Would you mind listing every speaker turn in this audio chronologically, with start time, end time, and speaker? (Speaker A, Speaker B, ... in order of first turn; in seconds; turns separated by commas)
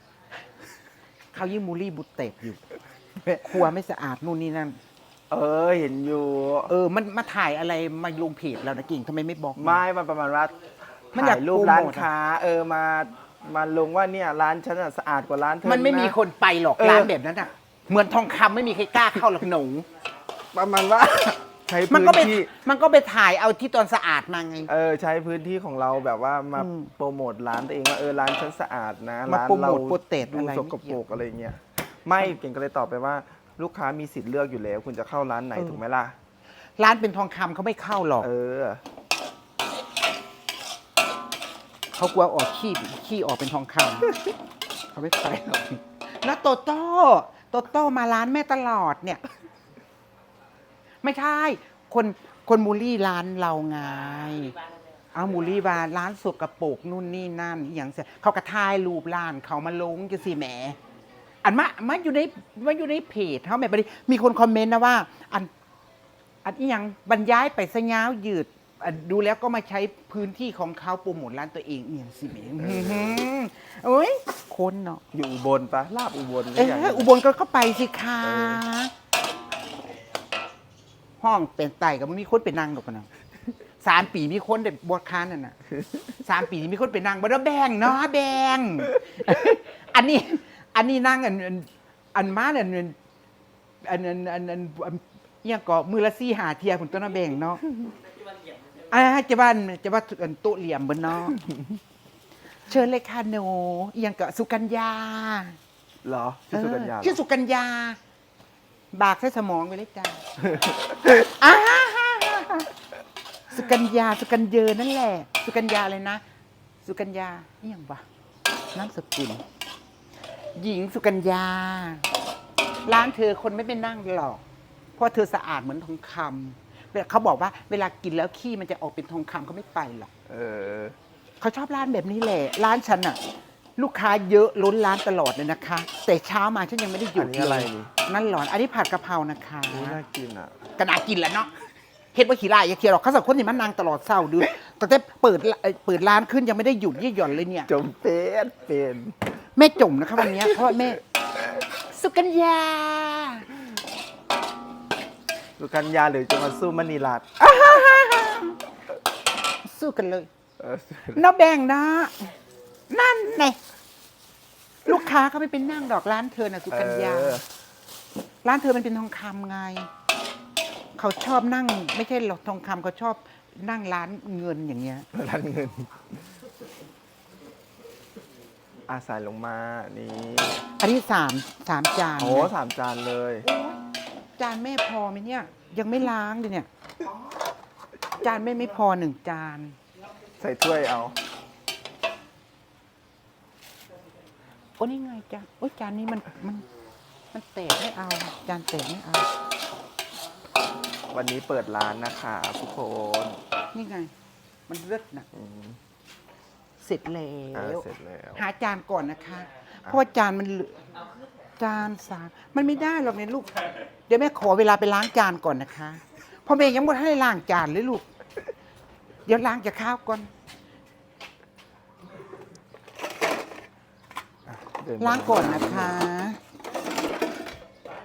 Speaker A: 1.3-2.6, Speaker A: 3.2-4.8, Speaker B: 5.3-6.7, Speaker A: 6.7-9.8, Speaker B: 9.6-10.6, Speaker B: 11.1-16.2, Speaker A: 11.1-12.1, Speaker A: 15.6-19.9, Speaker B: 16.8-17.1, Speaker B: 20.5-22.5, Speaker A: 21.9-24.7, Speaker B: 24.7-36.2, Speaker A: 26.6-26.9, Speaker A: 29.3-31.0, Speaker A: 36.8-38.3, Speaker B: 38.2-38.8, Speaker A: 42.0-44.1, Speaker A: 44.9-49.2, Speaker A: 51.0-54.6, Speaker A: 55.1-60.8, Speaker A: 61.4-65.5, Speaker A: 66.4-75.0, Speaker B: 72.6-73.2, Speaker B: 75.1-77.1, Speaker A: 76.5-78.9, Speaker B: 78.2-78.6, Speaker A: 81.2-83.1, Speaker A: 83.8-85.6, Speaker A: 86.2-93.0, Speaker A: 93.8-97.6, Speaker A: 98.9-101.5, Speaker A: 102.7-105.6, Speaker B: 106.0-107.2, Speaker A: 106.5-108.0, Speaker A: 108.9-110.2, Speaker A: 110.9-112.7, Speaker A: 113.5-116.2, Speaker A: 116.8-118.0, Speaker A: 118.7-119.4, Speaker A: 120.5-122.1, Speaker A: 122.9-124.4, Speaker A: 125.0-130.1, Speaker B: 130.3-131.0, Speaker A: 131.4-133.2, Speaker A: 133.8-140.0, Speaker B: 137.2-137.9, Speaker B: 139.7-140.6, Speaker A: 140.8-141.5, Speaker A: 142.1-147.7, Speaker B: 147.7-149.2, Speaker A: 149.6-151.0, Speaker A: 151.9-153.5, Speaker B: 155.6-157.5, Speaker A: 157.4-158.6, Speaker A: 159.6-160.3, Speaker B: 160.6-161.2, Speaker A: 161.2-162.3, Speaker A: 162.9-163.6, Speaker A: 164.8-167.4, Speaker B: 166.7-167.4, Speaker A: 168.4-169.9, Speaker A: 171.0-175.1, Speaker B: 175.1-175.9, Speaker B: 178.9-180.7, Speaker A: 180.8-182.5, Speaker B: 182.2-183.5, Speaker A: 183.4-183.8, Speaker A: 184.4-186.7, Speaker A: 188.2-189.8, Speaker B: 190.4-191.2, Speaker A: 194.8-196.6, Speaker A: 197.3-199.3, Speaker B: 201.1-203.4, Speaker A: 203.7-204.1, Speaker A: 204.7-205.3, Speaker B: 205.3-205.8, Speaker A: 206.8-210.8, Speaker B: 207.5-208.4, Speaker A: 211.6-213.6, Speaker A: 214.1-218.0, Speaker A: 219.3-220.3, Speaker B: 224.5-226.0, Speaker A: 225.0-226.4